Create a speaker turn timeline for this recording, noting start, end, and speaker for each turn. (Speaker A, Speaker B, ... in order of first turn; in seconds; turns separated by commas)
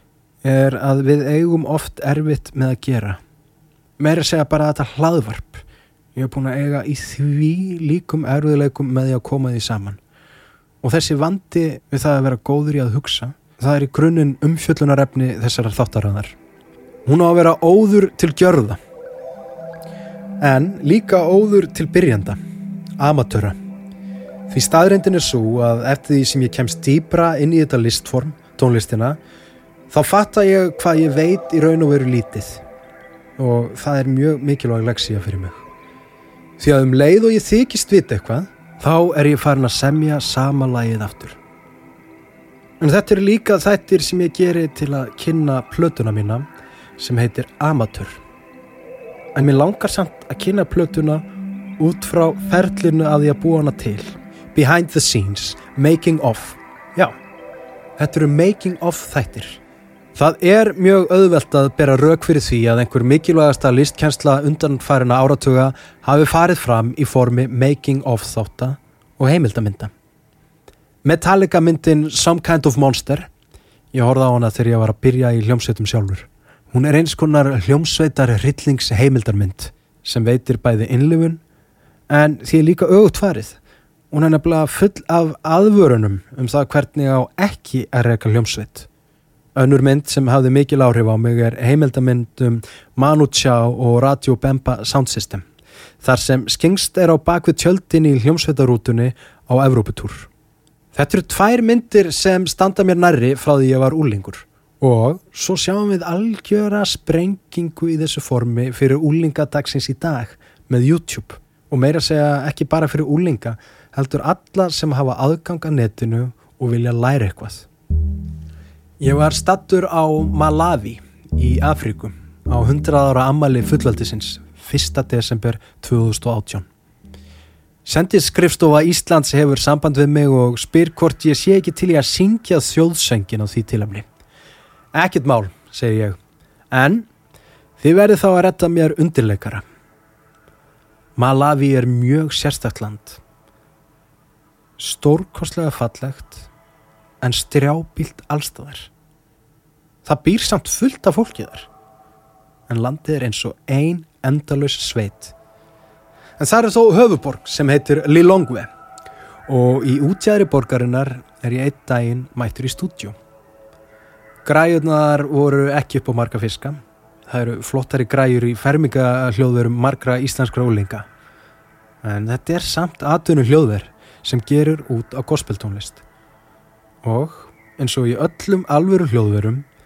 Speaker A: 0.4-3.2, Speaker A: 4.0-5.6, Speaker A: 6.2-10.0, Speaker A: 10.8-16.4, Speaker A: 17.1-18.8, Speaker A: 20.4-22.4, Speaker A: 23.0-23.6, Speaker A: 24.5-29.2, Speaker A: 29.9-32.6, Speaker A: 33.4-35.6, Speaker A: 36.6-41.4, Speaker A: 42.8-46.5, Speaker A: 47.0-48.2, Speaker A: 49.4-51.2, Speaker A: 51.8-57.2, Speaker A: 58.0-59.6, Speaker A: 60.1-69.9, Speaker A: 71.0-73.3, Speaker A: 73.9-81.4, Speaker A: 82.1-83.6, Speaker A: 84.1-88.9, Speaker A: 89.5-95.5, Speaker A: 96.0-100.3, Speaker A: 100.9-117.7, Speaker A: 119.0-126.7, Speaker A: 127.8-134.1, Speaker A: 134.9-136.2, Speaker A: 136.7-137.1, Speaker A: 137.8-139.6, Speaker A: 141.2-143.2, Speaker A: 144.8-146.5, Speaker A: 147.2-148.9, Speaker A: 150.1-151.7, Speaker A: 152.7-155.3, Speaker A: 156.4-158.7, Speaker A: 159.5-163.2, Speaker A: 164.4-171.1, Speaker A: 172.0-176.0, Speaker A: 177.0-179.7